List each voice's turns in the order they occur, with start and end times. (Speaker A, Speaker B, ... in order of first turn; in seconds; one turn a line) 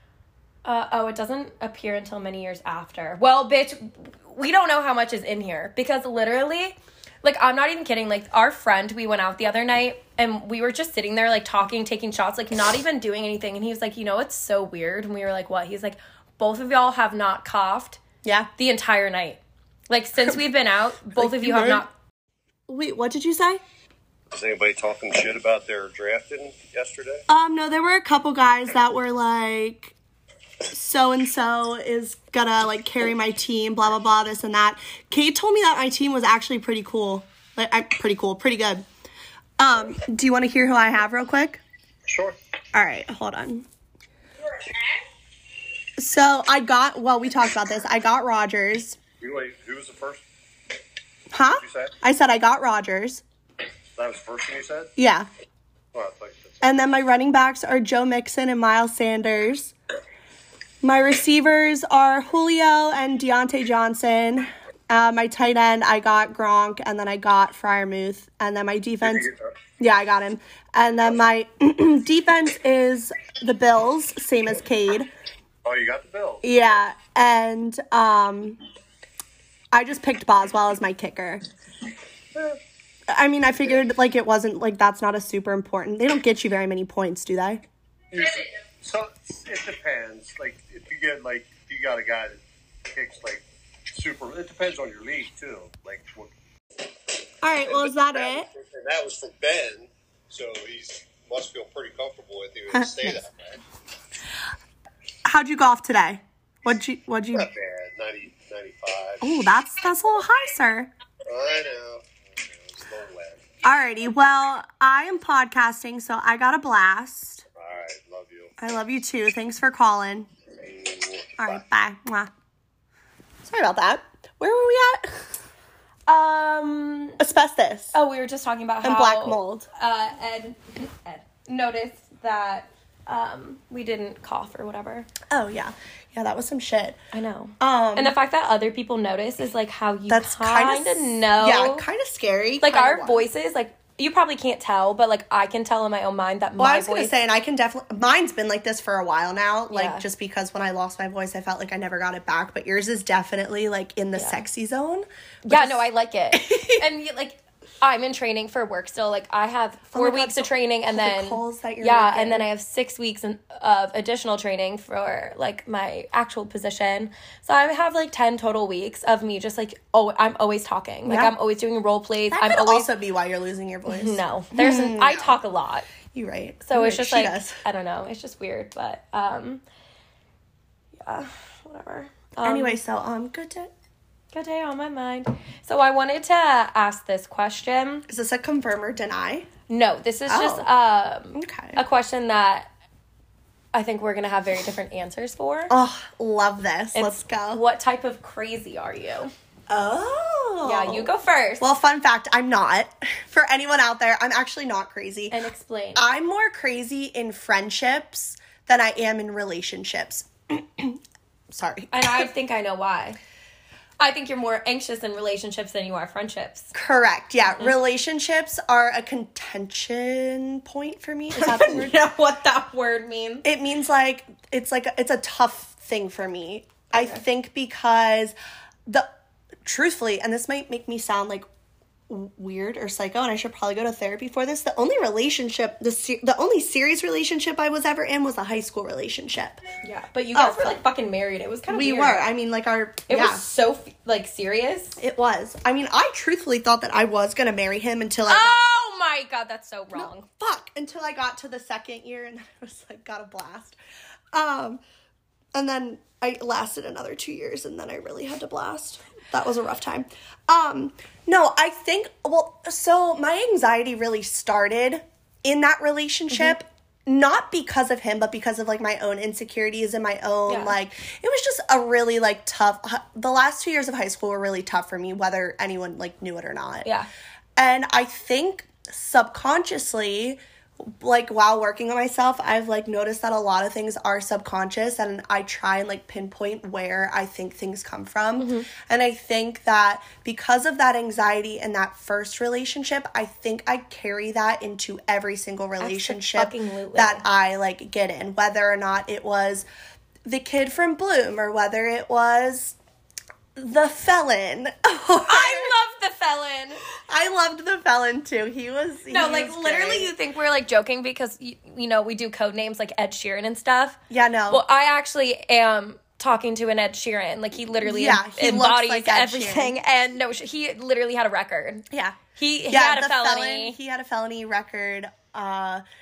Speaker A: 0.7-18.0
Speaker B: 18.2-18.5
Speaker A: 18.6-21.9
Speaker B: 21.2-21.8
Speaker B: 22.7-23.6
Speaker C: 24.3-27.2
Speaker B: 27.3-29.9
Speaker B: 30.7-38.9
Speaker B: 39.6-41.6
Speaker C: 42.1-42.4
Speaker B: 42.7-43.7
Speaker B: 46.0-49.0
Speaker C: 49.2-50.2
Speaker B: 51.3-53.2
Speaker C: 51.5-51.9
Speaker C: 54.0-54.9
Speaker B: 55.0-55.3
Speaker C: 55.9-56.6
Speaker B: 56.6-59.7
Speaker B: 60.8-75.1
Speaker C: 75.6-76.4
Speaker B: 76.4-78.6
Speaker B: 79.7-81.4
Speaker B: 83.1-87.7
Speaker C: 88.1-96.3
Speaker B: 97.4-98.5
Speaker C: 97.6-103.5
Speaker B: 102.7-103.2
Speaker B: 105.2-107.5
Speaker C: 107.3-109.2
Speaker B: 109.2-110.9
Speaker C: 111.3-113.5
Speaker B: 113.6-117.4
Speaker C: 117.6-118.6
Speaker B: 118.6-120.3
Speaker C: 120.6-121.6
Speaker B: 121.4-122.3
Speaker B: 123.5-125.3
Speaker A: 126.1-127.2
Speaker B: 127.2-127.9
Speaker A: 127.9-135.1
Speaker B: 128.8-129.7
Speaker B: 135.3-137.0
Speaker A: 137.1-141.8
Speaker B: 137.6-138.2
Speaker B: 140.1-143.3
Speaker A: 142.6-147.1
Speaker B: 146.6-156.8
Speaker A: 149.7-150.1
Speaker A: 154.2-154.4
Speaker A: 155.4-172.9
Speaker B: 159.9-162.5
Speaker B: 171.1-171.3
Speaker B: 172.3-175.4
Speaker A: 173.9-175.9
Speaker B: 176.1-177.6
Speaker A: 176.7-179.6
Speaker A: 181.0-182.8
Speaker B: 182.4-183.7
Speaker A: 184.3-188.1
Speaker B: 188.1-189.5
Speaker A: 189.7-192.7
Speaker B: 190.3-190.7
Speaker B: 191.3-191.8
Speaker A: 193.7-195.7
Speaker B: 195.7-197.6
Speaker A: 196.9-199.3
Speaker B: 199.7-205.4
Speaker A: 200.6-201.6
Speaker A: 205.3-206.1
Speaker B: 206.0-211.0
Speaker B: 211.5-212.3
Speaker A: 211.9-213.2
Speaker A: 214.0-216.7
Speaker B: 216.7-222.0
Speaker A: 221.3-223.5
Speaker B: 223.4-228.3
Speaker A: 226.9-227.2
Speaker B: 229.7-231.4
Speaker B: 232.1-239.6
Speaker A: 239.8-242.2
Speaker B: 240.3-240.8
Speaker B: 241.7-243.4
Speaker A: 243.1-245.0
Speaker B: 245.0-248.6
Speaker A: 248.3-250.3
Speaker B: 249.9-253.8
Speaker B: 254.3-254.8
Speaker B: 255.5-276.9
Speaker A: 270.5-270.8
Speaker B: 277.6-299.7
Speaker A: 288.4-288.7
Speaker A: 295.8-297.2
Speaker B: 300.2-302.8
Speaker B: 303.6-305.8
Speaker A: 305.2-306.8
Speaker B: 307.1-310.1
Speaker A: 309.1-323.8
Speaker B: 314.1-314.6
Speaker B: 317.8-319.8
Speaker B: 321.9-322.2
Speaker B: 322.7-325.8